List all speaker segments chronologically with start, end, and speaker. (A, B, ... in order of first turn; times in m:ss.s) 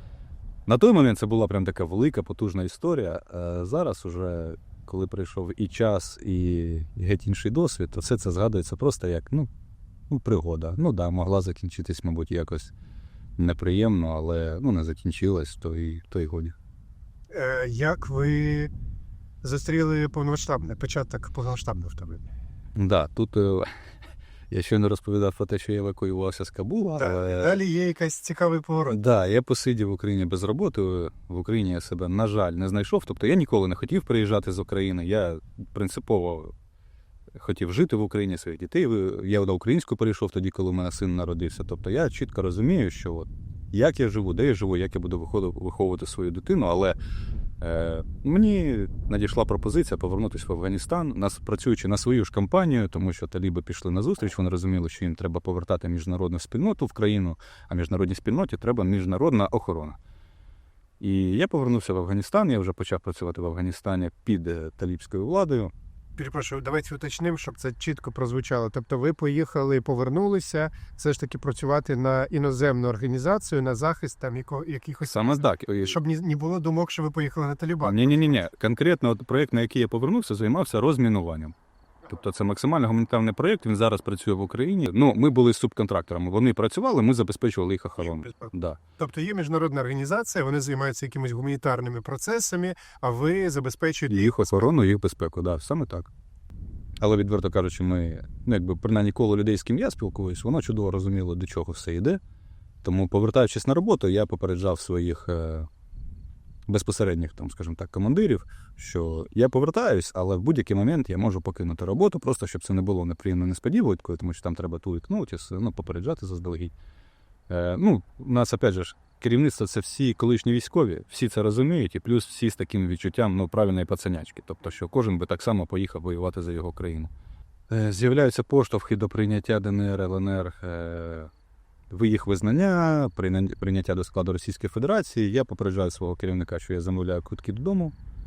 0:00.7-0:09.5 A
0:10.1-0:12.7 A
0:13.4-0:16.5 A
0:17.3-0:18.7 B
0:19.4-0:22.2 B
0:22.8-0:23.7 A
0:24.5-0:27.6 A
0:27.0-0:29.0 B
0:28.9-0:36.5 A
0:37.4-0:47.0 A
0:47.6-1:00.0 A
1:01.0-1:05.7 A
1:06.2-1:18.4 B
1:15.1-1:16.0 A
1:17.8-1:21.5 A
1:22.1-1:28.8 A
1:28.1-1:34.6 B
1:34.1-1:36.1 A
1:37.0-1:42.2 A
1:42.8-1:45.7 A
1:46.7-1:56.7 A
1:57.5-2:07.1 A
2:07.7-2:11.3 A
2:11.9-2:17.9 A